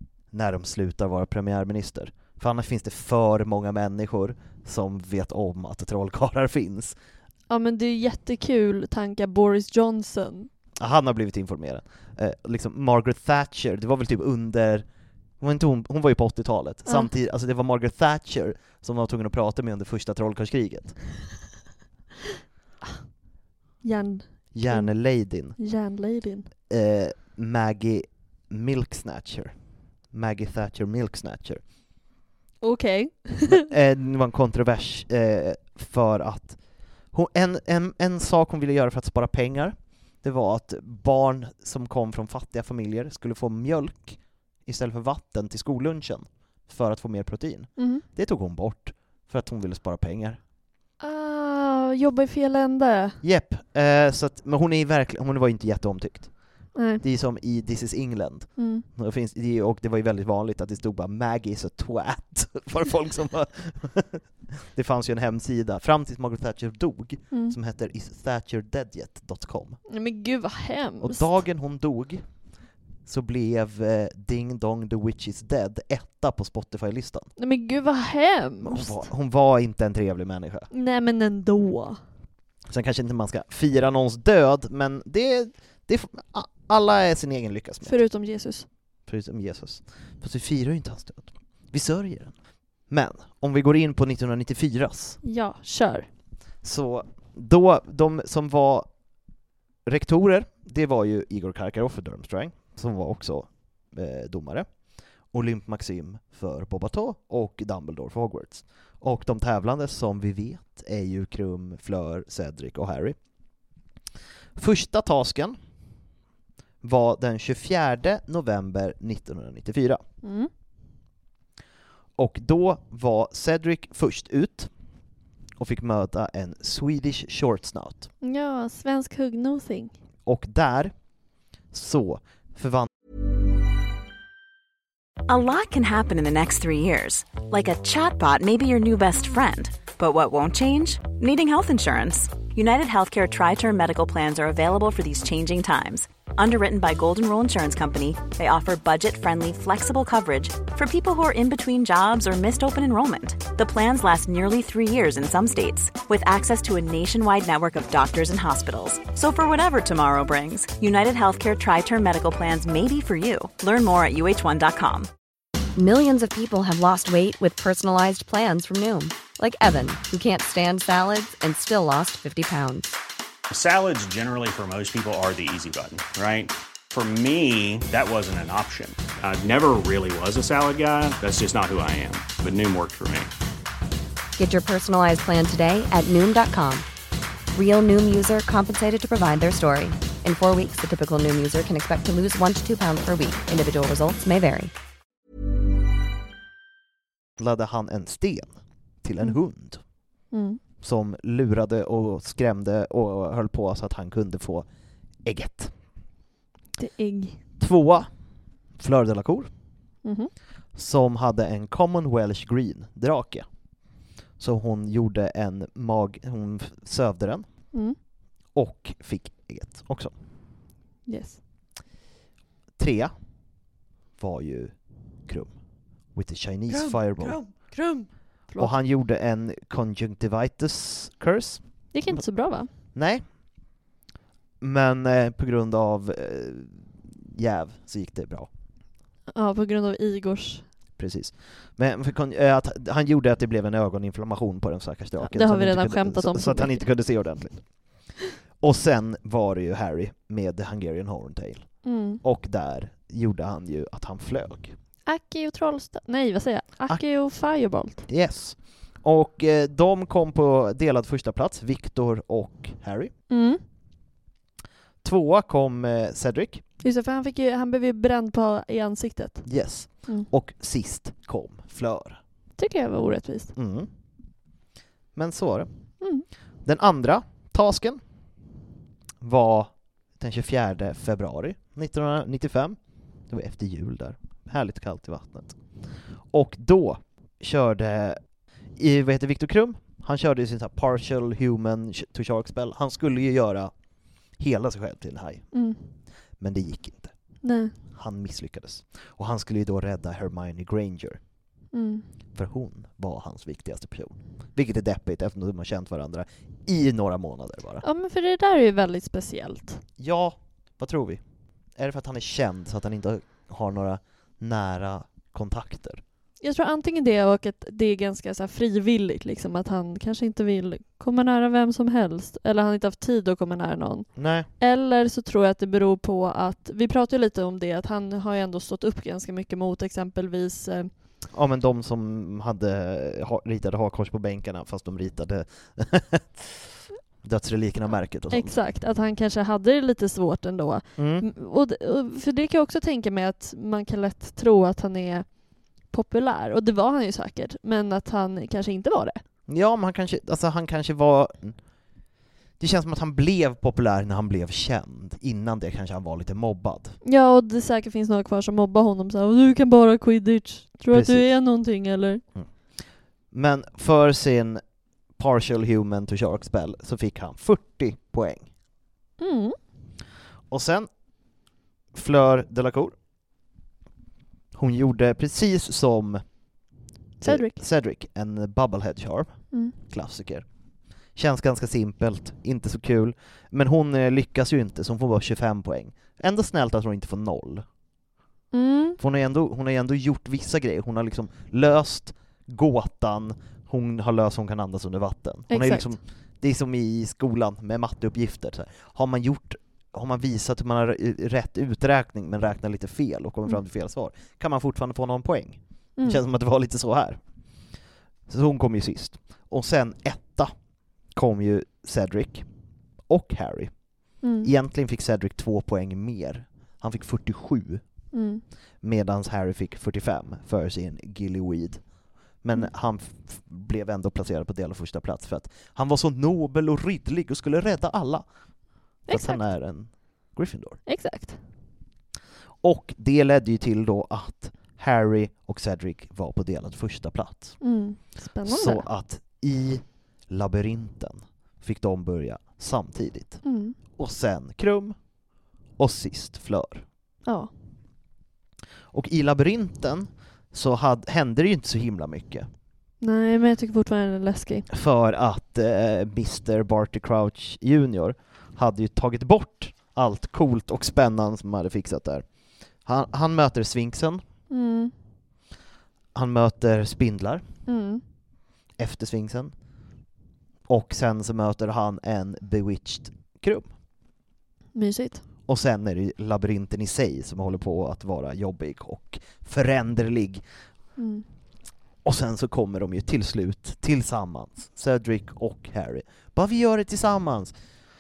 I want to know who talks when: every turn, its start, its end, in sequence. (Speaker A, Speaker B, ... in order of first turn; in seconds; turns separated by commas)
Speaker A: 0.3-7.0, Speaker B: 7.5-10.5, Speaker A: 10.8-14.9, Speaker A: 15.4-21.0, Speaker B: 23.8-24.9, Speaker A: 24.5-25.6, Speaker B: 25.6-26.5, Speaker A: 26.7-29.5, Speaker A: 30.1-31.6, Speaker B: 32.6-33.7, Speaker A: 33.5-36.6, Speaker A: 37.1-50.4, Speaker B: 47.8-48.0, Speaker B: 51.0-53.2, Speaker A: 53.2-56.3, Speaker B: 56.8-57.0, Speaker A: 57.0-69.8, Speaker B: 58.6-58.9, Speaker B: 69.9-71.3, Speaker A: 71.0-72.2, Speaker A: 73.1-77.3, Speaker B: 77.4-79.0, Speaker A: 78.6-80.7, Speaker B: 80.7-82.0, Speaker A: 82.7-88.0, Speaker B: 87.8-88.7, Speaker A: 89.1-92.3, Speaker A: 92.9-95.2, Speaker B: 95.2-96.1, Speaker A: 96.6-98.9, Speaker A: 99.9-104.7, Speaker A: 105.3-113.2, Speaker A: 114.6-115.6, Speaker A: 116.8-120.0, Speaker B: 120.2-120.5, Speaker A: 122.2-124.7, Speaker A: 125.6-128.1, Speaker B: 128.2-129.9, Speaker A: 130.3-130.9, Speaker A: 131.7-132.9, Speaker C: 135.3-165.1, Speaker D: 165.8-173.0, Speaker E: 173.5-183.3, Speaker D: 184.4-186.9, Speaker D: 187.5-194.7, Speaker A: 197.4-199.8, Speaker B: 200.3-200.6, Speaker A: 200.8-204.7, Speaker A: 205.2-205.7, Speaker B: 206.8-207.4, Speaker A: 207.6-208.1, Speaker A: 208.8-209.5, Speaker B: 210.0-210.3, Speaker A: 210.8-213.5, Speaker A: 214.4-217.5, Speaker A: 218.5-220.1, Speaker B: 221.1-221.4, Speaker A: 222.8-223.1, Speaker A: 224.2-224.7, Speaker A: 225.3-225.5, Speaker A: 226.2-227.4, Speaker B: 226.7-228.7, Speaker A: 228.6-232.2, Speaker B: 231.9-232.7, Speaker A: 232.9-233.2, Speaker A: 234.6-238.5, Speaker B: 239.3-240.7, Speaker A: 241.0-247.6, Speaker B: 245.2-246.8, Speaker A: 248.6-254.8, Speaker B: 251.8-252.2, Speaker B: 255.1-258.1, Speaker A: 258.1-263.1, Speaker B: 263.3-263.6, Speaker A: 265.0-266.6, Speaker B: 266.8-269.5, Speaker A: 269.5-272.2, Speaker B: 272.6-273.5, Speaker A: 273.6-273.9, Speaker A: 275.1-275.7, Speaker A: 276.6-278.0, Speaker A: 279.2-282.8, Speaker A: 283.3-285.6, Speaker A: 286.3-288.2, Speaker A: 288.8-293.7, Speaker A: 294.4-295.5, Speaker B: 295.5-295.9, Speaker A: 296.4-297.1, Speaker B: 297.4-297.7, Speaker A: 297.9-301.2, Speaker B: 301.7-302.1, Speaker A: 302.4-307.8, Speaker B: 307.8-309.8, Speaker A: 310.0-311.2, Speaker A: 311.8-316.0, Speaker B: 316.4-324.1, Speaker A: 324.2-324.5, Speaker B: 324.6-330.9, Speaker A: 331.3-336.7, Speaker A: 337.2-338.6, Speaker B: 338.3-349.2, Speaker A: 341.0-341.3, Speaker A: 349.5-351.6, Speaker A: 352.6-357.0, Speaker B: 357.0-362.2, Speaker A: 360.9-361.3, Speaker A: 363.3-364.6, Speaker A: 365.2-368.5, Speaker B: 369.2-369.6, Speaker A: 370.5-370.9, Speaker A: 371.9-372.9, Speaker A: 374.5-376.3, Speaker B: 377.2-377.6, Speaker A: 377.2-380.5, Speaker A: 381.1-387.7, Speaker B: 388.5-389.0, Speaker A: 389.0-407.2, Speaker B: 395.5-396.0, Speaker A: 408.3-410.5, Speaker A: 411.1-412.5, Speaker A: 413.1-417.8, Speaker B: 414.2-414.5, Speaker B: 418.1-418.4, Speaker A: 418.8-421.9, Speaker A: 422.4-428.3, Speaker B: 429.1-429.4, Speaker A: 429.1-430.8, Speaker B: 430.9-431.4, Speaker A: 432.6-437.6, Speaker B: 437.6-438.9, Speaker A: 438.5-443.4, Speaker B: 443.4-443.8, Speaker A: 444.0-445.0, Speaker A: 445.8-446.9, Speaker A: 448.9-452.5, Speaker B: 453.0-454.7, Speaker A: 454.7-464.2, Speaker B: 464.5-464.9, Speaker A: 466.1-467.4, Speaker B: 467.7-468.0, Speaker A: 468.8-469.5, Speaker A: 470.7-473.7, Speaker B: 474.8-475.2, Speaker A: 475.5-480.4, Speaker B: 481.0-481.2, Speaker A: 482.0-487.5